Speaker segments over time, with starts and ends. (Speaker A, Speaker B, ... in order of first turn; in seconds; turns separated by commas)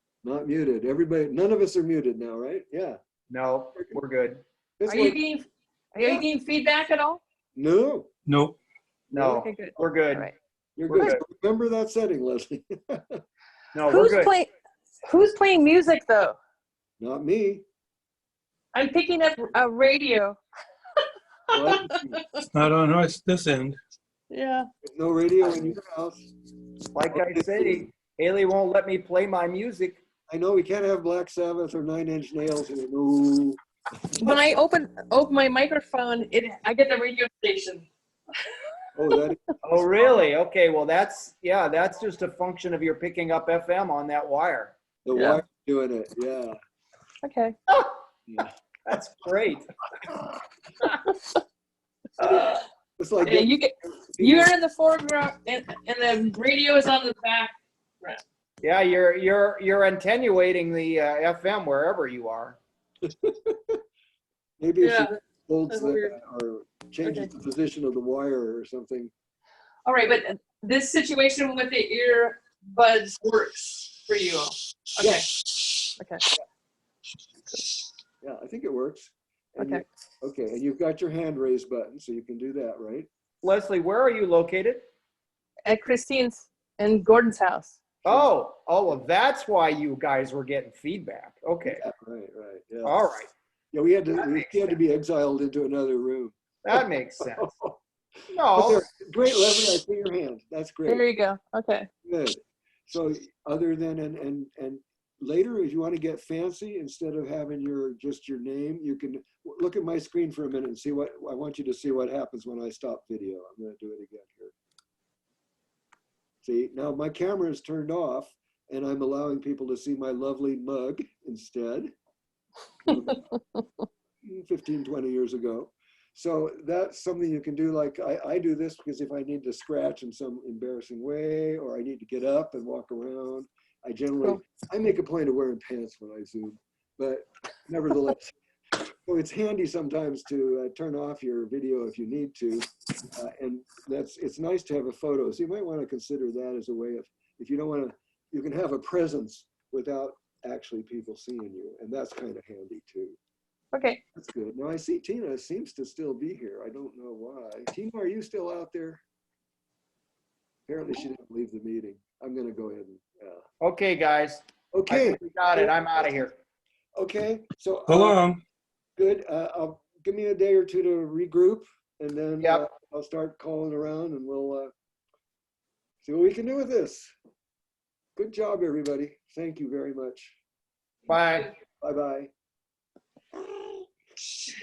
Speaker A: 0.2-3.0, Speaker B: 3.3-4.4, Speaker A: 4.8-5.2, Speaker C: 4.8-7.2, Speaker A: 7.5-8.1, Speaker D: 8.3-8.6, Speaker B: 9.1-10.3, Speaker C: 9.2-10.3, Speaker A: 10.8-13.2, Speaker B: 10.9-11.2, Speaker B: 13.7-14.3, Speaker C: 13.9-14.5, Speaker C: 15.0-16.4, Speaker A: 17.0-17.6, Speaker C: 18.7-20.4, Speaker A: 21.5-22.2, Speaker C: 21.5-22.4, Speaker D: 22.5-23.8, Speaker C: 24.3-24.7, Speaker A: 24.8-26.3, Speaker B: 26.9-30.0, Speaker A: 27.1-27.9, Speaker A: 30.3-33.6, Speaker C: 34.2-37.9, Speaker A: 38.9-40.1, Speaker B: 39.6-44.7, Speaker A: 45.0-46.6, Speaker C: 45.1-45.4, Speaker C: 47.2-47.5, Speaker B: 48.9-49.6, Speaker B: 52.2-52.5, Speaker A: 53.0-54.5, Speaker C: 53.2-58.2, Speaker B: 58.6-62.6, Speaker A: 63.0-63.8, Speaker A: 64.6-69.1, Speaker C: 64.8-65.1, Speaker C: 65.7-66.2, Speaker C: 67.0-67.3, Speaker C: 69.8-75.4, Speaker A: 75.0-75.3, Speaker C: 76.0-76.2, Speaker A: 78.2-83.1, Speaker C: 79.6-79.8, Speaker B: 83.4-84.8, Speaker C: 85.6-87.8, Speaker B: 88.0-91.8, Speaker A: 91.6-93.0, Speaker B: 92.8-93.3, Speaker A: 93.7-97.8, Speaker B: 94.1-94.8, Speaker B: 96.6-97.5, Speaker B: 98.3-98.8, Speaker A: 98.5-101.0, Speaker C: 100.8-101.9, Speaker A: 102.0-114.5, Speaker A: 116.4-121.9, Speaker A: 122.8-123.3, Speaker C: 122.9-123.3, Speaker A: 124.2-138.3, Speaker A: 139.1-153.2, Speaker C: 153.7-154.0, Speaker A: 154.1-159.0, Speaker A: 160.7-163.4, Speaker B: 163.6-166.3, Speaker A: 164.7-166.3, Speaker A: 166.9-168.2, Speaker D: 167.9-168.4, Speaker A: 169.0-174.7, Speaker A: 176.0-177.1, Speaker A: 178.2-180.4, Speaker C: 181.1-181.5, Speaker B: 181.1-181.5, Speaker A: 181.8-182.3, Speaker A: 183.6-183.8